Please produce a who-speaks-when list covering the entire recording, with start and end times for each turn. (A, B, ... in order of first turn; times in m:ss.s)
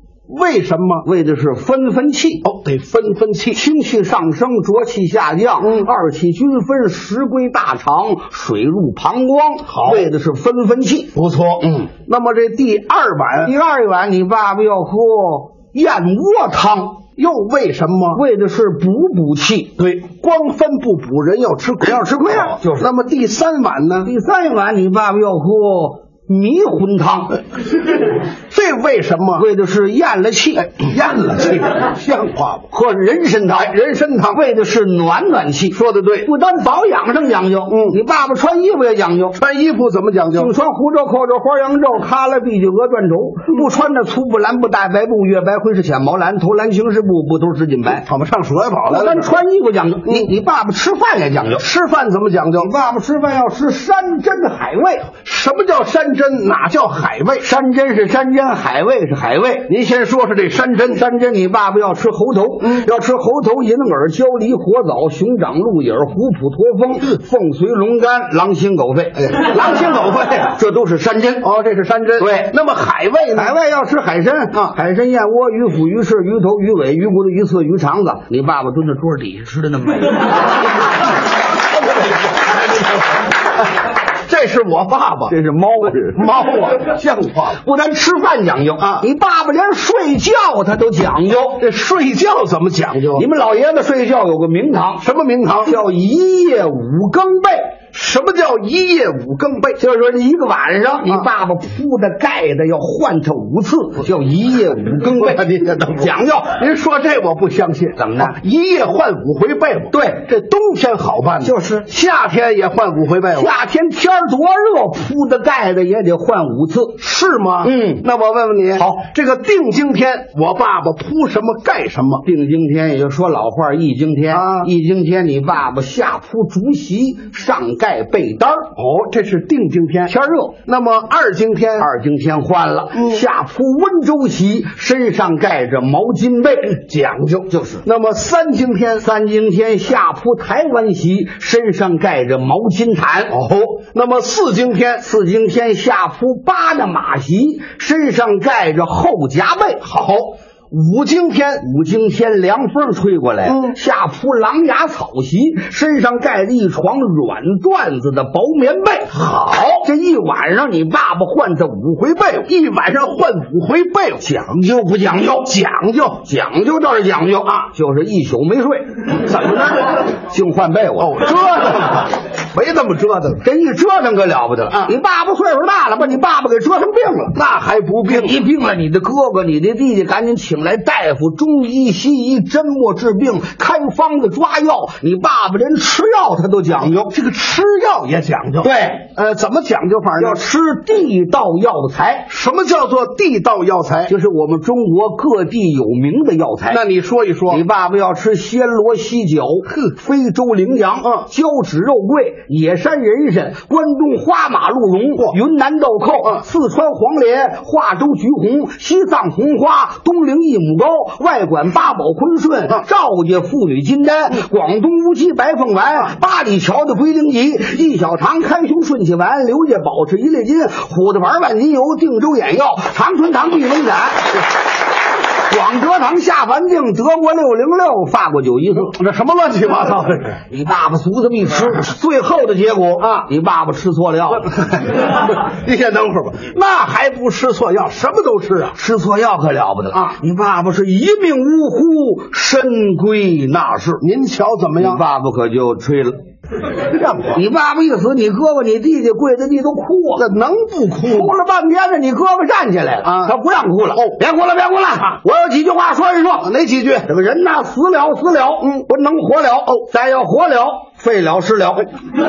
0:00.3-0:01.0 A
0:01.0-0:02.4 B
0:02.4-0:03.6 A
0:03.5-0:11.1 B
0:05.6-0:05.9 A
0:09.7-0:10.1 A
0:11.1-0:13.5 A
0:13.5-0:17.0 B
0:17.1-0:18.2 A
0:18.1-0:19.7 B
0:19.8-0:24.1 A
0:21.9-0:22.9 B
0:24.0-0:27.3 B
0:28.5-0:29.5 A
0:29.4-0:30.7 B
0:30.6-0:32.7 A
0:32.7-0:33.6 B
0:33.6-0:34.4 A
0:34.3-0:39.4 B
0:35.7-0:36.3 A
0:37.7-0:38.0 A
0:39.4-0:40.5 A
0:40.4-0:48.0 B
0:47.9-0:49.3 A
0:48.9-0:51.6 B
0:50.0-0:50.3 A
0:51.5-0:52.7 A
0:52.6-0:55.1 B
0:55.2-0:57.5 A
0:57.4-0:59.7 B
0:59.7-1:01.0 A
1:01.0-1:09.1 B
1:02.6-1:02.9 A
1:09.2-1:10.5 A
1:10.5-1:11.4 B
1:11.4-1:13.6 A
1:12.2-1:12.4 B
1:13.4-1:20.5 B
1:24.3-1:25.4 A
1:25.3-1:26.2 B
1:25.9-1:27.6 A
1:27.6-1:31.6 B
1:28.8-1:29.0 A
1:31.6-1:33.2 A
1:33.1-1:35.0 B
1:35.0-1:35.8 A
1:35.6-1:37.8 B
1:37.9-1:39.8 A
1:39.8-1:45.4 B
1:41.0-1:41.3 A
1:45.0-1:53.6 A
1:46.0-1:46.5 B
1:48.0-1:48.3 B
1:51.4-1:51.8 B
1:53.4-1:57.0 B
1:57.0-2:02.2 A
1:57.6-1:58.0 B
2:02.2-2:08.7 B
2:04.3-2:04.7 A
2:08.8-2:10.1 A
2:10.1-2:10.5 B
2:10.6-2:11.9 A
2:11.8-2:16.7 B
2:12.9-2:13.2 A
2:16.7-2:19.1 A
2:17.5-2:17.8 B
2:19.0-2:23.3 B
2:23.3-2:25.1 A
2:25.0-2:29.8 B
2:29.8-2:30.4 A
2:30.7-2:42.3 B
2:33.4-2:33.8 A
2:39.1-2:39.8 A
2:42.3-2:44.5 A
2:44.3-2:45.3 B
2:45.3-2:46.3 A
2:46.3-2:48.9 B
2:49.2-2:50.0 A
2:50.3-2:51.1 B
2:51.0-2:53.5 A
2:53.4-2:57.3 B
2:57.3-2:58.4 A
2:58.2-3:06.8 B
3:06.7-3:10.4 A
3:10.2-3:12.3 B
3:12.3-3:14.1 A
3:14.1-3:16.8 B
3:16.6-3:17.6 A
3:17.5-3:44.4 B
3:45.5-3:48.8 B
3:48.7-3:50.4 A
3:50.5-3:54.4 B
3:53.0-3:53.3 A
3:54.3-3:58.8 A
3:58.8-4:04.0 B
3:59.9-4:00.2 A
4:04.0-4:05.0 A
4:04.8-4:06.2 B
4:06.9-4:07.4 A
4:07.3-4:10.2 B
4:10.2-4:11.3 A
4:11.1-4:16.4 B
4:13.0-4:13.3 A
4:13.9-4:14.2 A
4:16.4-4:17.0 A
4:17.0-4:21.9 B